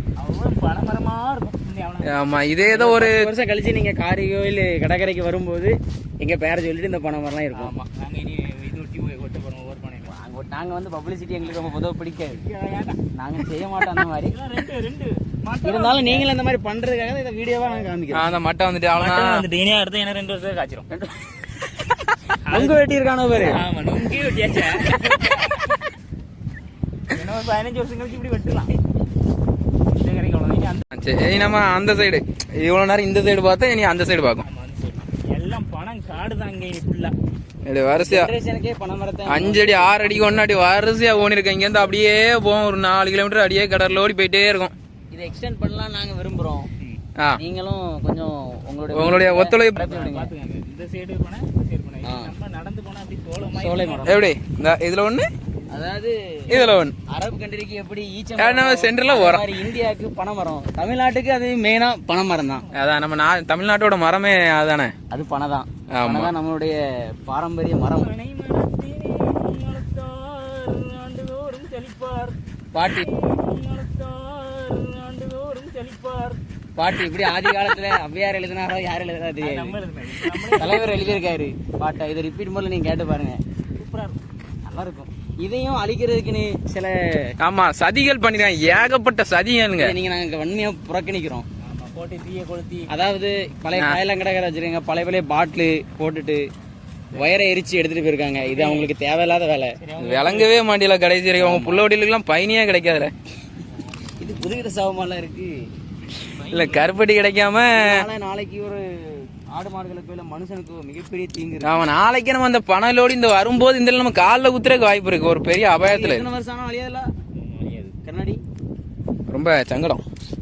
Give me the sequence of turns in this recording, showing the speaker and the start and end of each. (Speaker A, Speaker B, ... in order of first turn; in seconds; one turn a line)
Speaker A: 0.2-2.8
Speaker B: 2.0-3.3
Speaker C: 2.7-7.7
Speaker A: 7.5-10.1
Speaker C: 10.1-12.4
Speaker A: 12.4-13.0
Speaker C: 13.2-14.4
Speaker A: 13.8-16.3
Speaker C: 15.6-18.3
Speaker B: 18.1-19.4
Speaker A: 19.0-20.9
Speaker C: 20.9-21.4
Speaker A: 22.4-22.8
Speaker C: 22.5-23.6
Speaker A: 23.4-25.8
Speaker A: 27.1-28.8
Speaker A: 29.9-30.9
Speaker B: 30.9-34.5
Speaker A: 34.4-37.1
Speaker B: 37.7-38.3
Speaker C: 38.0-40.5
Speaker B: 39.3-44.7
Speaker C: 45.1-46.7
Speaker C: 47.4-50.3
Speaker B: 48.9-49.9
Speaker A: 49.8-54.2
Speaker C: 52.0-52.4
Speaker C: 53.5-54.3
Speaker B: 54.0-55.3
Speaker C: 55.7-62.6
Speaker B: 56.5-56.9
Speaker B: 58.4-59.5
Speaker B: 62.7-64.9
Speaker C: 65.1-68.1
Speaker B: 65.9-66.3
Speaker A: 67.9-76.4
Speaker C: 72.7-73.1
Speaker C: 76.8-79.8
Speaker A: 79.4-81.2
Speaker C: 80.5-83.4
Speaker A: 83.8-84.2
Speaker C: 84.7-87.3
Speaker B: 87.4-90.0
Speaker C: 89.8-91.5
Speaker A: 91.6-92.9
Speaker C: 92.9-96.5
Speaker B: 93.7-94.0
Speaker A: 97.1-97.4
Speaker C: 97.1-99.8
Speaker A: 98.4-98.9
Speaker A: 99.8-100.6
Speaker B: 100.0-103.1
Speaker C: 101.4-101.9
Speaker A: 104.0-104.5
Speaker C: 104.2-105.7
Speaker A: 106.3-107.0
Speaker B: 106.5-108.1
Speaker C: 107.7-111.9
Speaker B: 111.6-116.3
Speaker C: 115.8-117.1
Speaker A: 117.3-118.0
Speaker C: 118.0-118.4
Speaker B: 119.3-120.0